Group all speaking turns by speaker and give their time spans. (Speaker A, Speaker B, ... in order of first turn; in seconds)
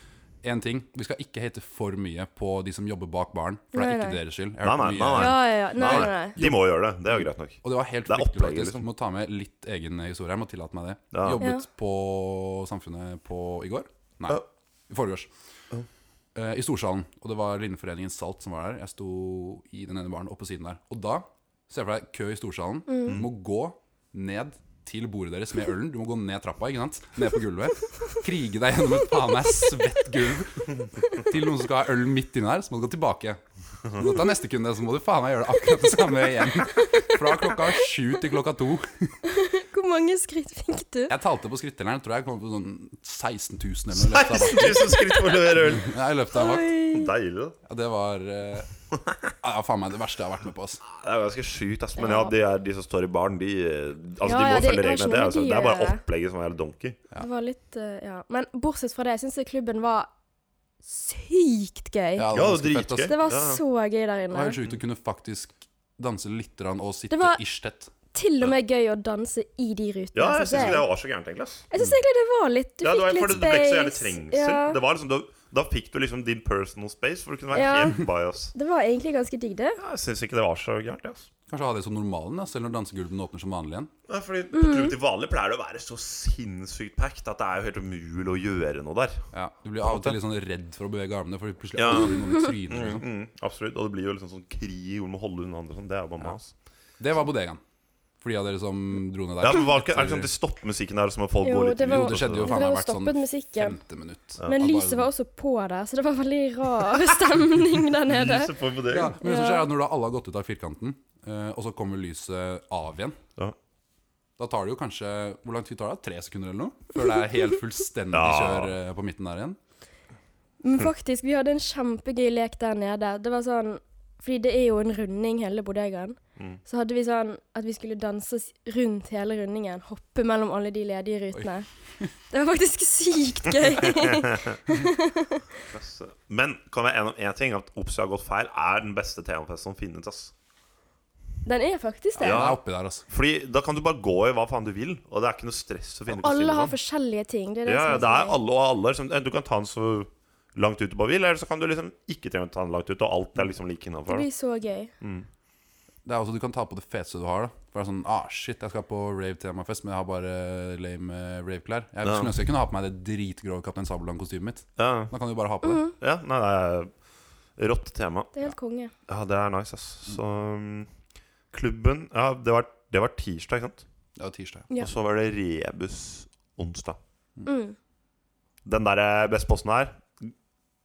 Speaker A: 0.4-6.7, 7.2-15.3, 16.4-39.2, 41.1-46.7, 47.7-48.7, 49.4-50.8, 62.2-63.2, 64.3-67.9, 81.5-83.9, 89.3-93.0, 97.0-97.6, 98.2-100.3, 101.8-105.1, 108.9-113.2, 114.4-119.6, 142.2-143.1, 156.1-165.8, 174.2-174.7
Speaker B: 3.7-4.2, 5.2-6.4, 11.4-11.7, 36.7-37.2, 39.2-41.1, 46.3-47.1, 52.0-52.3, 54.2-56.0, 57.2-60.1, 60.8-62.3, 63.0-64.6, 67.1-67.4, 68.1-70.8, 71.7-74.8, 77.5-79.8, 84.5-84.9, 101.4-103.8, 104.4-108.5, 109.2-109.7, 120.6-131.7, 132.3-135.4, 141.4-142.4, 146.1-148.4, 154.1-154.9, 165.6-165.9, 168.3-168.9, 177.4-177.8
Speaker C: 4.6-8.8, 11.1-11.4, 43.9-45.9, 46.9-47.6, 50.8-57.0, 62.3-63.6, 70.2-71.7, 72.8-78.5, 79.8-81.3, 84.1-89.3, 89.8-90.2, 91.8-96.5, 99.4-102.6, 104.4-104.7, 108.1-109.2, 118.1-118.8, 133.9-134.6, 135.6-140.3, 142.2-146.8, 147.7-154.3, 155.0-155.3, 162.0-162.4, 164.8-165.1, 166.0-166.9, 167.6-168.3, 169.1-170.9, 171.5-173.8, 174.8-177.0, 178.7-180.3